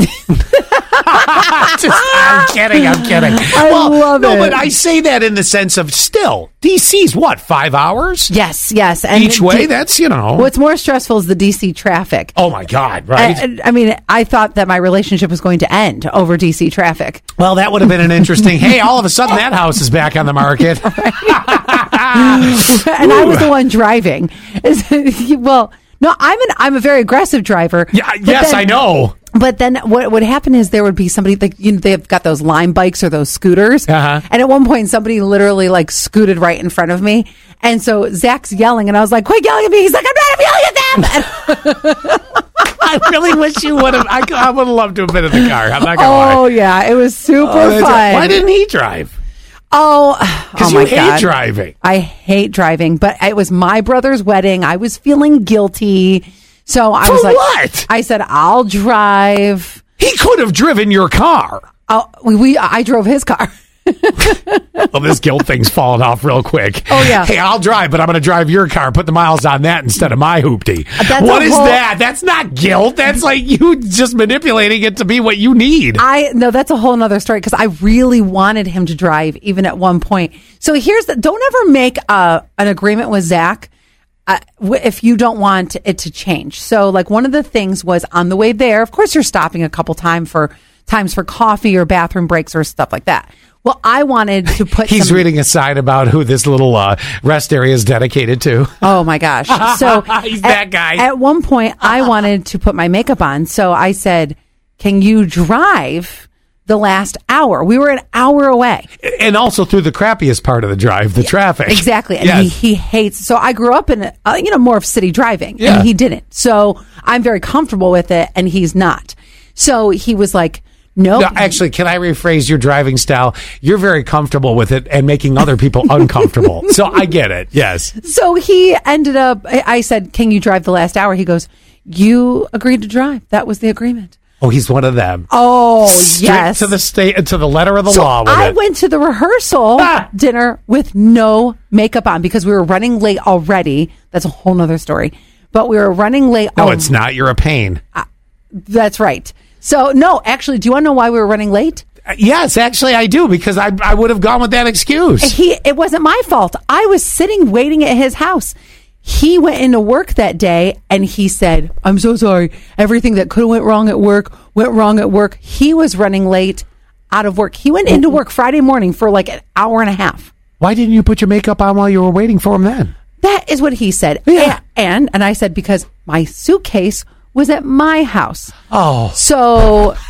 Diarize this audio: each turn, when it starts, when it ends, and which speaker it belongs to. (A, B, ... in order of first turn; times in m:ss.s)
0:00.2-0:04.6 A
0:01.0-0:08.3 B
0:08.3-0:09.7 A
0:09.1-0:10.5 B
0:10.4-0:12.3 A
0:12.4-0:13.4 B
0:13.1-0:17.3 A
0:17.4-0:23.5 B
0:20.8-0:42.4 A
0:27.9-0:29.1 B
0:33.9-0:34.2 B
0:42.8-0:46.5 B
0:45.4-0:48.4 A
0:47.4-0:49.1 B
0:49.7-0:59.8 A
0:50.5-0:51.7 B
0:57.0-0:57.9 B
1:00.0-1:01.7 B
1:01.9-1:04.9 A
1:04.9-1:16.0 B
1:06.9-1:07.3 A
1:11.0-1:11.8 A
1:16.0-1:23.7 A
1:24.2-1:35.2 A
1:34.8-1:38.9 B
1:38.8-1:48.9 A
1:39.5-1:41.0 B
1:49.0-1:52.5 B
1:51.6-2:01.6 A
1:55.6-1:55.9 B
2:01.2-2:07.9 B
2:08.0-2:14.2 A
2:14.4-2:15.3 B
2:15.3-2:16.7 A
2:15.8-2:18.6 B
2:17.9-2:26.9 A
2:19.8-2:20.0 B
2:26.6-2:27.8 B
2:28.6-2:31.8 A
2:32.0-2:35.3 B
2:35.2-2:50.3 A
2:50.6-2:52.9 B
2:53.2-2:58.5 A
2:54.2-2:54.6 B
2:58.7-2:59.2 B
2:59.1-3:00.0 A